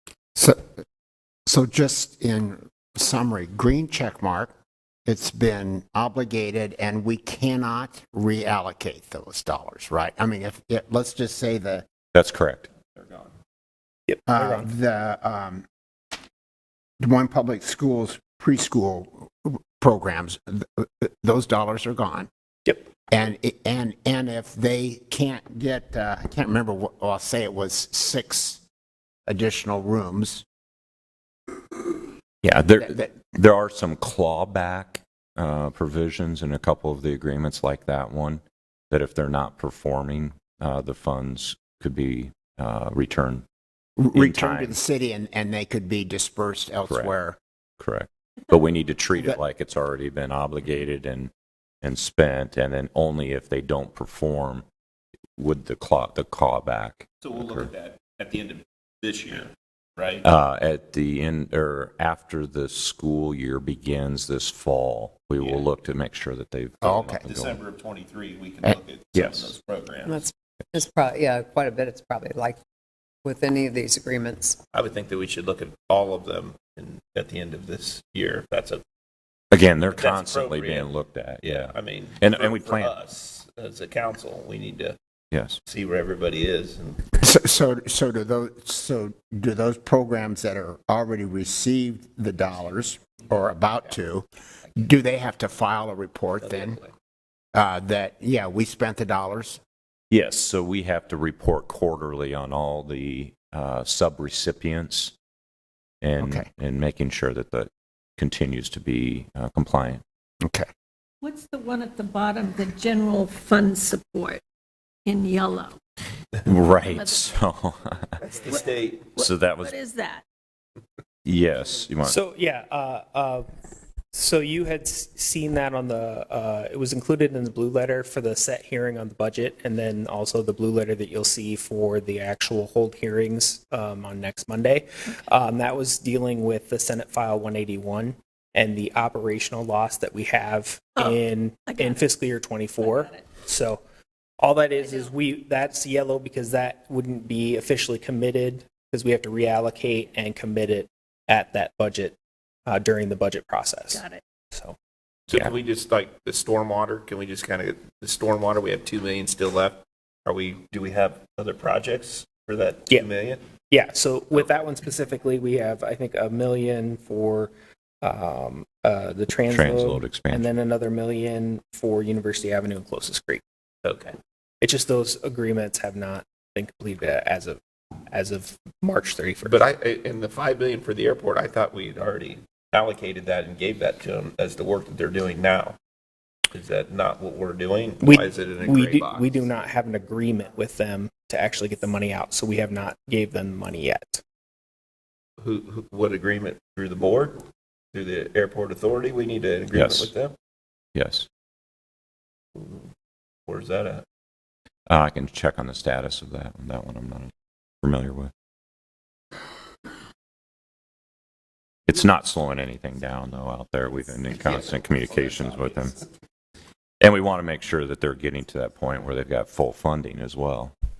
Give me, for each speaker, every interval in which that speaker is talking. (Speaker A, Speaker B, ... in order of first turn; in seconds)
Speaker A: 0.3-0.8, 1.5-4.5, 5.0-11.8, 14.3-15.6, 17.0-22.3, 23.1-28.6, 29.3-30.4, 44.0-47.4, 66.8-67.2, 87.1-96.8, 97.5-99.6, 106.2-106.5, 110.4-110.7
Speaker B: 12.1-12.7, 32.4-43.4, 44.1-44.8, 47.8-51.3, 51.8-54.6, 55.4-57.7, 60.2-67.6, 69.1-69.5, 79.5-83.0, 85.3-85.6, 100.1-105.1, 106.0-110.0, 116.4-118.2, 119.2-119.8, 121.2-122.2, 169.5-170.5, 199.7-200.1, 200.9-201.3, 204.9-208.3, 211.9-216.0, 217.0-220.7
Speaker C: 12.9-13.3, 57.2-60.2, 65.4-65.7, 67.1-70.2, 74.7-78.8, 79.8-80.9, 81.4-85.0, 85.7-87.0, 96.4-96.9, 118.3-119.1, 155.3-163.4, 173.8-174.2, 179.4-185.8, 186.5-189.4, 195.4-197.4, 197.9-200.3, 202.6-202.9, 203.5-204.0
Speaker D: 14.1-14.7, 122.0-123.5, 124.1-143.8, 144.4-154.7, 163.7-173.4, 174.6-177.6, 178.1-179.6, 188.0-194.2
Speaker E: 70.0-72.6, 73.2-74.6
Speaker F: 111.2-114.4, 115.0-115.8, 116.8-117.3, 118.5-120.2, 141.7-142.0, 142.8-143.2, 153.9-154.2